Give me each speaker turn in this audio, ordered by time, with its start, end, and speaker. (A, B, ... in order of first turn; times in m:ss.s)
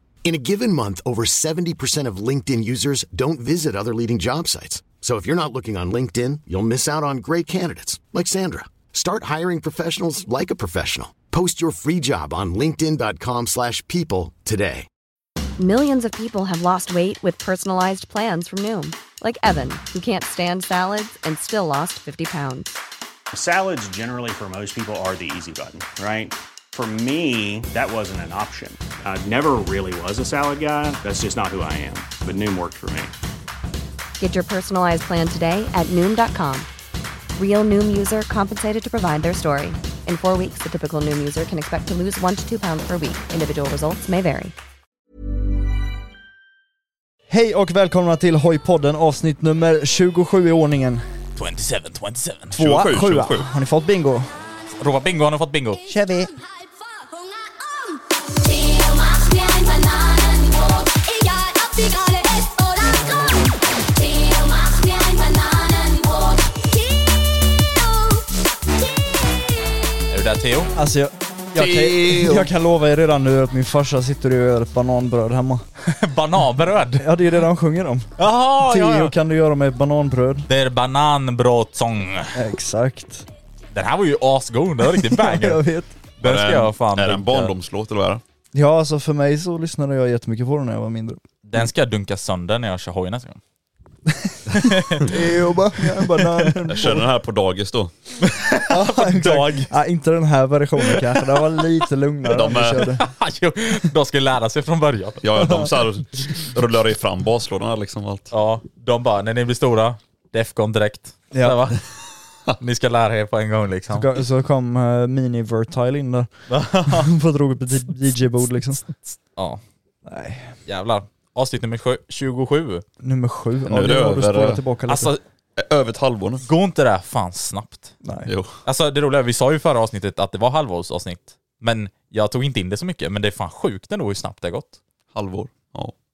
0:00.2-0:14.9 A
0:15.6-0:22.8 B
0:23.3-0:33.1 C
0:34.2-0:36.7 B
0:37.4-0:44.5 B
0:47.3-0:51.1 D
0:51.4-0:52.6 E
0:52.6-0:54.3 D
0:52.6-0:53.5 F
0:54.8-0:55.8 E
0:55.9-0:56.3 D
1:10.1-1:10.7 E
1:10.8-1:15.7 D
1:11.6-1:12.5 F
1:15.8-1:17.1 E
1:17.0-1:20.5 D
1:18.2-1:19.1 E
1:20.5-1:22.4 E
1:22.3-1:23.3 D
1:23.7-1:25.6 E
1:25.0-1:26.0 D
1:26.2-1:27.5 E
1:26.2-1:28.2 F
1:28.5-1:31.2 D
1:31.4-1:33.4 E
1:34.1-1:37.1 D
1:34.5-1:35.1 E
1:36.2-1:36.5 E
1:36.7-1:37.9 F
1:38.2-1:39.7 E
1:38.7-1:43.0 D
1:42.3-1:42.9 F
1:42.8-1:45.3 E
1:45.2-1:48.3 F
1:45.4-1:45.7 D
1:48.3-1:51.8 E
1:51.3-1:51.6 D
1:52.6-1:54.1 E
1:53.9-1:56.3 D
1:56.5-1:57.1 E
1:56.8-1:58.9 D
1:59.1-1:59.6 E
2:00.0-2:00.6 D
2:00.7-2:02.8 E
2:03.0-2:05.1 D
2:03.7-2:04.6 F
2:04.9-2:05.2 E
2:05.6-2:06.4 F
2:06.4-2:08.0 E
2:08.0-2:08.3 D
2:08.3-2:08.6 F
2:08.6-2:14.8 E
2:15.1-2:15.9 F